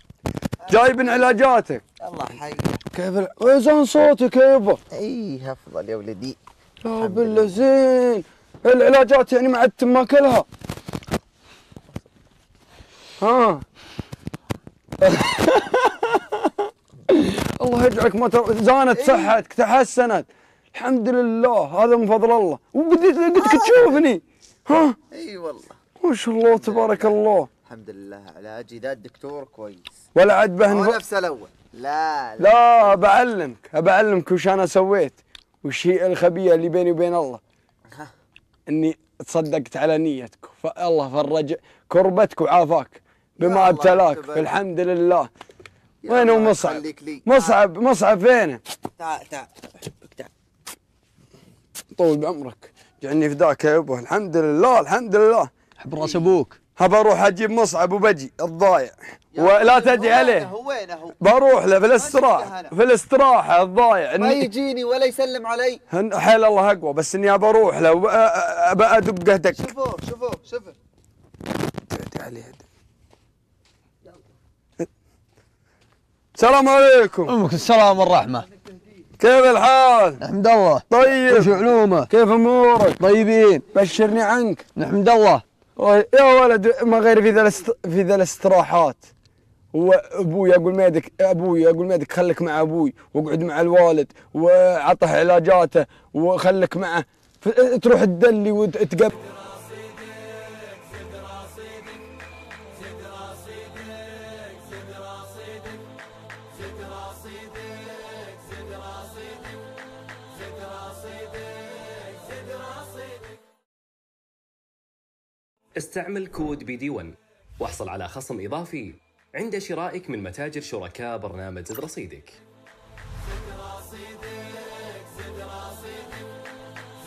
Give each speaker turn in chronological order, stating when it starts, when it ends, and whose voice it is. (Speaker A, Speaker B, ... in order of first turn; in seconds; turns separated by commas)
Speaker A: 0.7-1.8, Speaker B: 2.0-2.8, Speaker A: 2.9-4.8, Speaker B: 4.9-6.4, Speaker A: 6.8-10.4, Speaker B: 7.0-7.5, Speaker A: 13.2-13.6, Speaker A: 15.0-25.0, Speaker B: 18.9-19.3, Speaker B: 23.4-24.0, Speaker B: 25.1-25.8, Speaker A: 26.0-27.5, Speaker B: 26.4-29.9, Speaker A: 30.1-31.0, Speaker B: 30.6-33.0, Speaker A: 32.4-37.4, Speaker A: 38.7-45.3, Speaker B: 43.4-44.5, Speaker B: 46.0-47.6, Speaker A: 46.1-48.6, Speaker B: 49.0-50.3, Speaker A: 51.9-55.5, Speaker C: 55.8-56.6, Speaker A: 56.8-60.5, Speaker B: 59.3-61.2, Speaker A: 61.2-64.5, Speaker B: 61.7-62.7, Speaker B: 64.2-65.8, Speaker A: 65.9-69.7, Speaker B: 69.5-70.7, Speaker A: 71.9-72.6, Speaker A: 76.3-77.3, Speaker C: 77.3-78.5, Speaker A: 79.2-80.2, Speaker C: 80.2-82.1, Speaker A: 80.9-83.0, Speaker C: 83.0-83.7, Speaker A: 83.7-84.6, Speaker C: 84.8-85.4, Speaker A: 85.8-89.0, Speaker A: 89.7-99.1, Speaker D: 115.8-122.4